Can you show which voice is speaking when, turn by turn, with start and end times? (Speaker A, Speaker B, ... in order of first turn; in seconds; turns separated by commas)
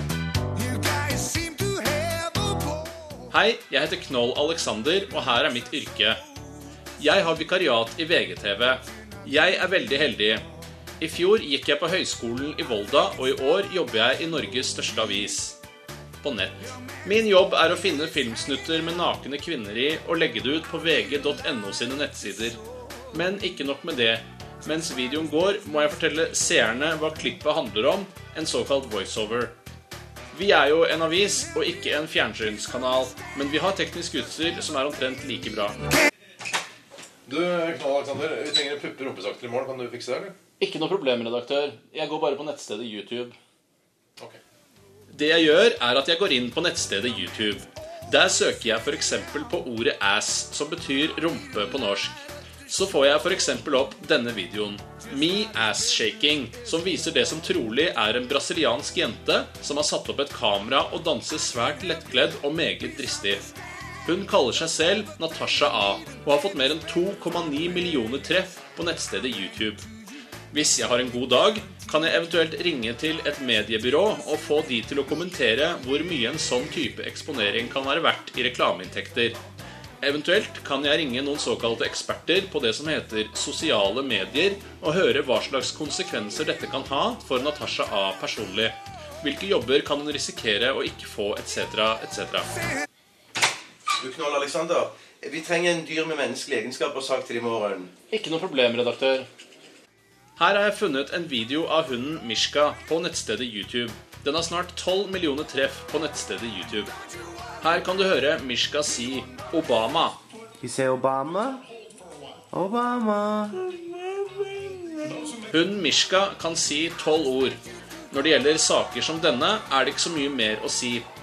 Speaker A: 0.5-3.1, Speaker B: 3.3-6.2, Speaker B: 7.0-10.4, Speaker B: 11.0-15.6, Speaker B: 16.2-22.6, Speaker B: 23.1-29.5, Speaker B: 30.3-35.8, Speaker C: 37.2-40.4, Speaker B: 40.6-43.4, Speaker B: 45.1-63.5, Speaker B: 64.0-69.9, Speaker B: 70.5-79.4, Speaker B: 80.0-92.5, Speaker D: 93.9-97.9, Speaker B: 98.1-99.3, Speaker B: 100.4-106.9, Speaker B: 107.6-110.2, Speaker E: 110.6-111.6, Speaker E: 112.5-113.8, Speaker B: 115.5-117.6, Speaker B: 118.1-121.0